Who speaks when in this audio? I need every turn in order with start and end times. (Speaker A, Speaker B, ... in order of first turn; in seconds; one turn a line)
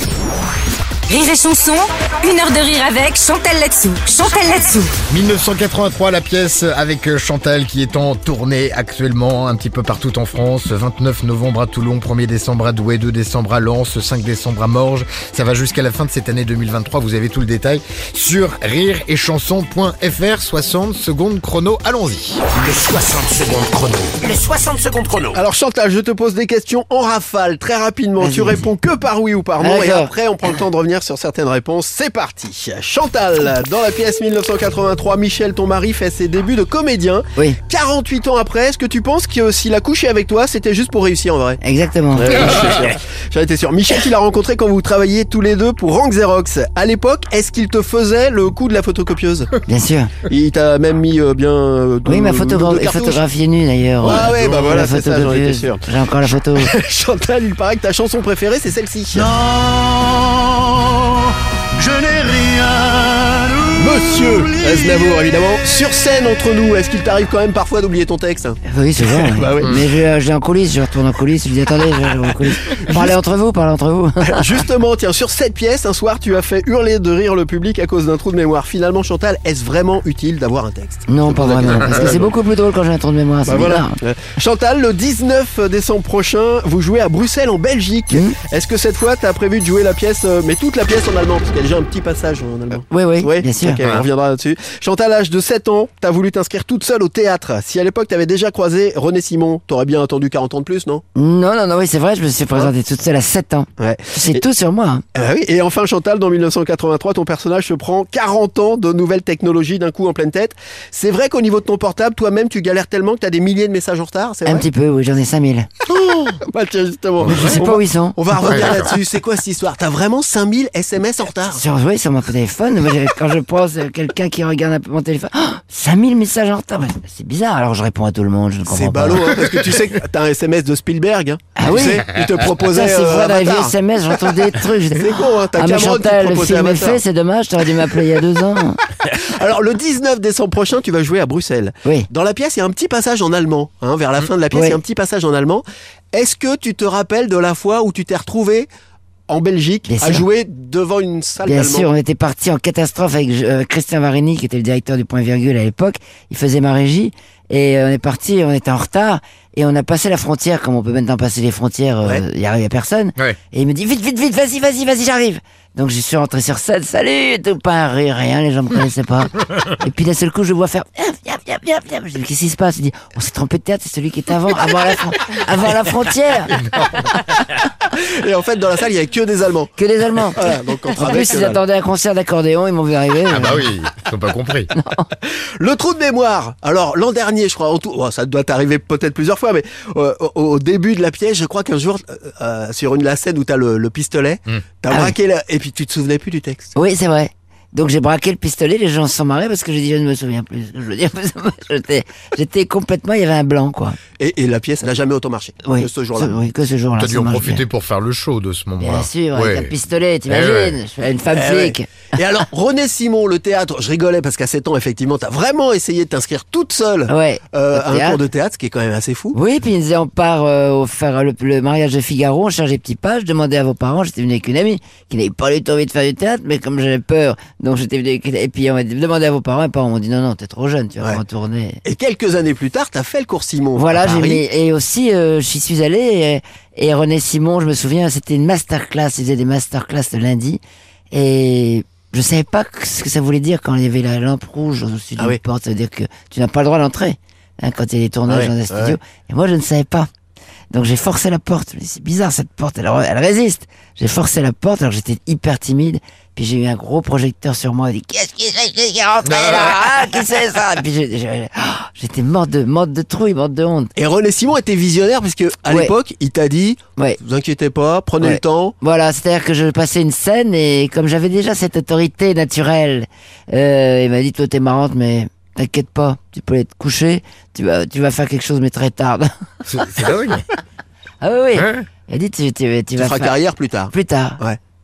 Speaker A: 1.1-4.9
Speaker B: 5.1-22.4
Speaker C: 22.5-25.4
Speaker D: 25.3-41.6
Speaker E: 28.2-28.7
Speaker E: 29.6-30.1
Speaker E: 41.6-42.5
Speaker D: 42.2-49.5
Speaker E: 49.7-50.1
Speaker D: 50.3-53.2
Speaker E: 52.0-56.7
Speaker D: 54.0-55.8
Speaker D: 56.6-59.3
Speaker D: 63.7-69.8
Speaker E: 68.7-74.5
Speaker D: 72.8-73.1
Speaker D: 74.2-82.3
Speaker E: 81.1-84.0
Speaker D: 83.5-101.0
Speaker E: 88.1-88.4
Speaker E: 92.9-93.8
Speaker E: 101.2-105.0
Speaker D: 103.8-104.4
Speaker D: 105.2-114.7
Speaker E: 114.5-115.7
Speaker D: 115.9-121.6
Speaker B: 117.2-117.6
Speaker E: 117.3-118.9
Speaker B: 118.4-118.9
Speaker E: 121.5-129.3
Speaker D: 128.7-133.8
Speaker E: 131.6-138.8
Speaker D: 134.5-137.0
Speaker D: 139.0-148.7
Speaker E: 144.5-144.8
Speaker D: 149.3-151.9
Speaker E: 149.9-150.3
Speaker E: 151.4-176.5
Speaker B: 176.5-177.3
Speaker D: 177.9-179.7
Speaker E: 179.8-180.4
Speaker D: 180.3-181.6
Speaker E: 180.9-183.7
Speaker B: 183.3-184.7
Speaker E: 184.7-185.1
Speaker D: 185.2-196.7
Speaker E: 194.9-195.2
Speaker E: 196.8-204.0
Speaker D: 204.2-206.4
Speaker E: 205.6-207.6
Speaker B: 207.0-209.7
Speaker E: 208.8-212.0
Speaker B: 210.3-210.8
Speaker D: 211.3-219.4
Speaker E: 217.1-218.2
Speaker E: 219.3-231.8
Speaker D: 231.8-234.4
Speaker E: 233.8-250.1
Speaker D: 248.3-249.0
Speaker E: 250.7-263.9
Speaker B: 259.2-260.1
Speaker D: 264.0-268.8
Speaker E: 265.7-265.9
Speaker E: 268.2-279.3
Speaker B: 279.7-280.5
Speaker E: 281.2-284.4
Speaker B: 281.6-281.9
Speaker D: 283.0-284.6